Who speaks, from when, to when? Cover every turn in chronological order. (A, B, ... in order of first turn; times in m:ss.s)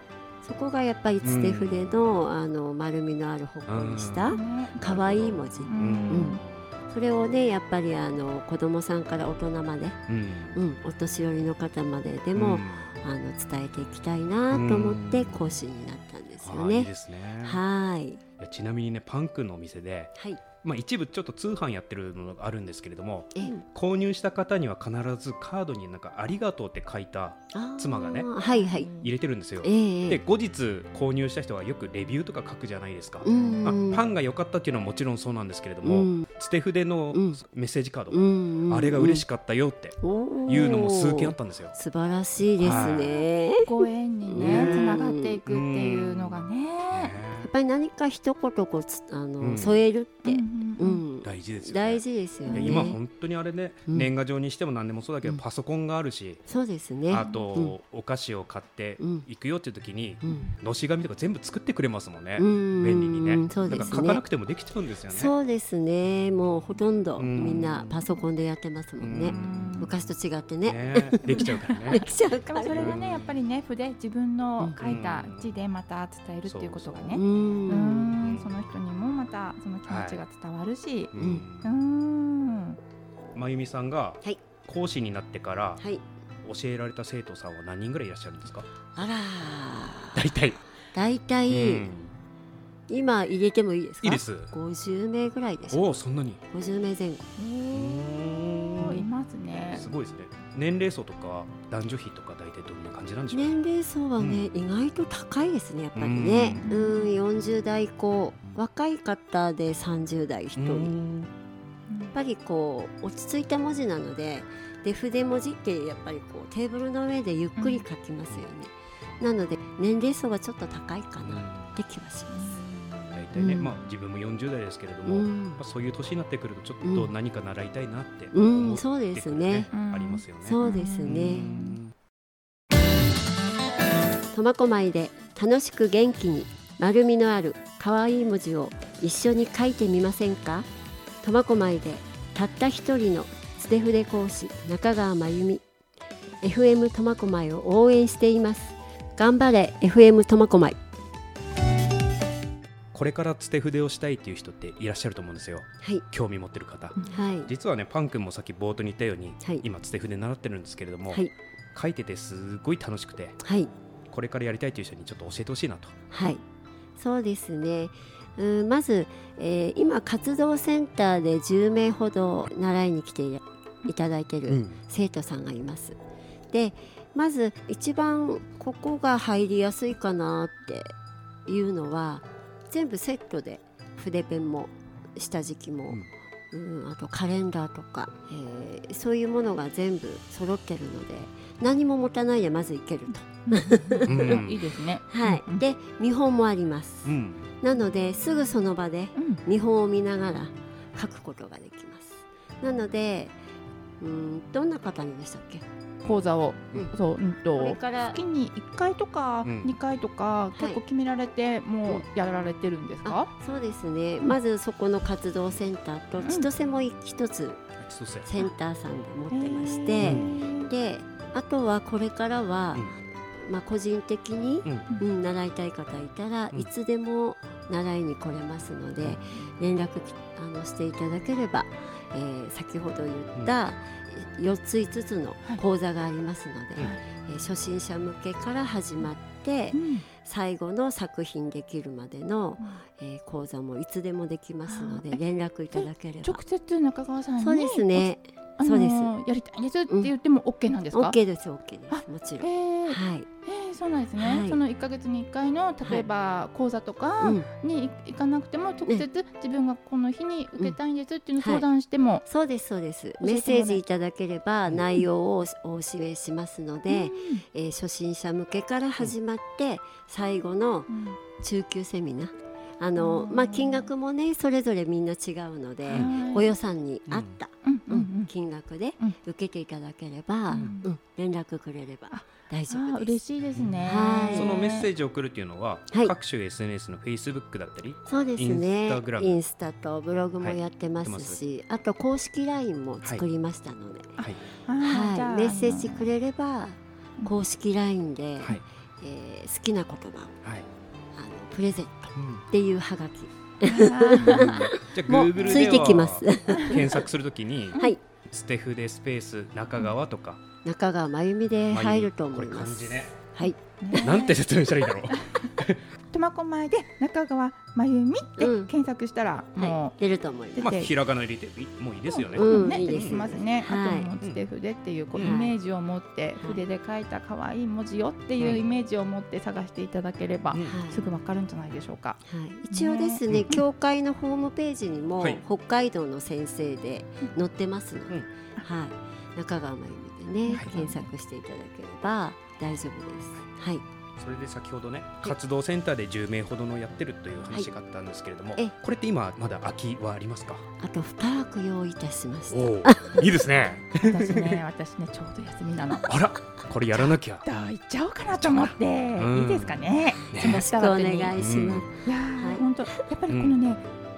0:00.4-0:10.0 A
0:01.2-0:02.0 B
0:03.7-0:06.7 B
0:04.3-0:04.9 C
0:05.7-0:06.4 C
0:10.1-0:10.6 B
0:10.5-0:16.9 A
0:12.3-0:13.0 B
0:14.5-0:15.5 B
0:16.4-0:17.6 B
0:17.4-0:18.2 A
0:18.4-0:28.3 B
0:20.2-0:20.4 A
0:23.4-0:23.6 A
0:27.5-0:28.9 A
0:28.5-0:29.1 C
0:29.0-0:41.8 B
0:29.6-0:30.2 A
0:33.2-0:34.0 A
0:33.3-0:33.7 C
0:35.8-0:36.3 A
0:37.1-0:37.4 A
0:38.1-0:39.2 A
0:40.0-0:43.7 A
0:42.6-0:43.2 B
0:42.7-0:42.9 C
0:43.6-0:47.2 C
0:44.3-0:45.4 A
0:44.4-0:47.5 B
0:47.4-0:53.0 A
0:49.4-0:49.8 B
0:50.2-0:51.0 C
0:51.2-0:56.4 B
0:52.5-0:52.9 C
0:56.5-0:57.8 A
0:57.1-1:05.3 B
0:57.2-0:57.5 C
0:59.0-0:59.3 A
1:00.2-1:00.5 C
1:02.4-1:04.2 A
1:05.1-1:13.0 A
1:07.2-1:08.0 B
1:09.0-1:09.9 B
1:09.2-1:09.9 C
1:10.6-1:12.0 B
1:11.3-1:22.8 C
1:12.7-1:13.3 B
1:14.8-1:15.5 B
1:16.5-1:17.2 B
1:17.1-1:18.2 A
1:18.2-1:18.5 B
1:19.9-1:20.2 B
1:21.1-1:21.7 B
1:21.2-1:21.4 A
1:23.4-1:25.8 B
1:25.8-1:26.0 A
1:26.4-1:28.7 B
1:29.0-1:30.3 A
1:30.2-1:30.6 B
1:30.9-1:31.9 A
1:31.5-1:32.1 B
1:32.9-1:35.8 A
1:34.0-1:34.5 B
1:35.7-1:36.4 B
1:36.5-1:37.2 A
1:37.4-1:39.9 C
1:37.7-1:39.0 B
1:39.7-1:43.6 B
1:43.3-1:50.9 A
1:44.2-1:44.5 B
1:46.0-1:46.6 B
1:46.3-1:47.1 C
1:50.6-1:51.3 B
1:51.9-1:52.2 C
1:52.1-2:02.6 A
1:57.6-1:57.8 C
2:01.2-2:01.8 B
2:02.3-2:03.2 C
2:03.1-2:11.9 B
2:03.4-2:03.7 A
2:05.1-2:05.6 A
2:06.8-2:07.1 A
2:08.3-2:09.7 A
2:09.7-2:11.8 C
2:10.4-2:11.5 A
2:14.3-2:20.7 A
2:21.2-2:25.6 A
2:26.4-2:30.8 A
2:32.9-2:43.4 B
2:37.0-2:37.2 C
2:37.1-2:37.5 A
2:43.4-2:43.7 A
2:44.1-2:46.0 B
2:46.1-2:46.4 A
2:47.0-2:56.0 A
2:54.5-2:54.8 B
2:56.5-3:00.9 A
3:01.5-3:06.0 A
3:06.5-3:14.5 A
3:13.5-3:15.6 C
3:14.1-3:14.6 B
3:15.1-3:23.4 A
3:17.0-3:17.5 B
3:19.2-3:19.4 C
3:24.0-3:25.6 A
3:26.0-3:33.3 C
3:27.6-3:28.2 A
3:29.4-3:29.7 B
3:30.6-3:30.8 A
3:33.0-3:37.6 A
3:36.2-3:36.5 C
3:37.8-3:38.3 B
3:38.2-4:06.4 A
3:39.3-3:40.7 C
3:40.0-3:40.3 B
3:59.7-4:00.1 C
4:04.7-4:11.2 C
4:07.4-4:09.1 A
4:10.9-4:13.3 A
4:11.9-4:22.2 C
4:14.2-4:14.6 A
4:17.2-4:17.5 A
4:21.4-4:21.7 A
4:22.3-4:43.2 A
4:23.2-4:23.8 C
4:26.9-4:27.4 C
4:30.9-4:31.2 C
4:33.0-4:33.9 C
4:35.9-4:36.5 C
4:37.1-4:37.4 B
4:37.6-4:38.3 C
4:40.5-4:40.9 C
4:42.1-4:44.9 C
4:43.8-4:44.6 A
4:44.3-4:49.4 B
4:48.1-4:54.2 A
4:50.4-4:51.4 B
4:54.2-4:56.1 C
4:54.8-5:00.4 A
5:01.2-5:07.1 A
5:02.2-5:02.4 B
5:03.6-5:04.6 C
5:04.2-5:10.4 B
5:05.4-5:05.8 C
5:06.5-5:06.8 C
5:07.8-5:08.0 A
5:10.6-5:13.6 A
5:11.7-5:13.1 B
5:13.8-5:14.4 C
5:14.0-5:15.8 B
5:15.1-5:15.5 C
5:16.1-5:20.0 C
5:18.4-5:18.7 A
5:19.6-5:20.8 A
5:20.6-5:20.9 C
5:20.6-5:23.2 B
5:22.1-5:33.6 C
5:22.3-5:24.1 A
5:25.2-5:25.6 A
5:30.5-5:30.8 B
5:30.6-5:31.0 A
5:32.2-5:43.8 A
5:40.5-5:41.1 C
5:44.2-5:50.7 B
5:50.8-5:53.3 A
5:52.5-5:54.6 B
5:54.0-5:56.1 C
5:56.1-5:57.4 B
5:56.9-6:01.4 C
5:58.3-6:00.6 B
6:00.4-6:02.7 A
6:01.4-6:01.9 B
6:02.0-6:03.8 C
6:03.3-6:03.6 B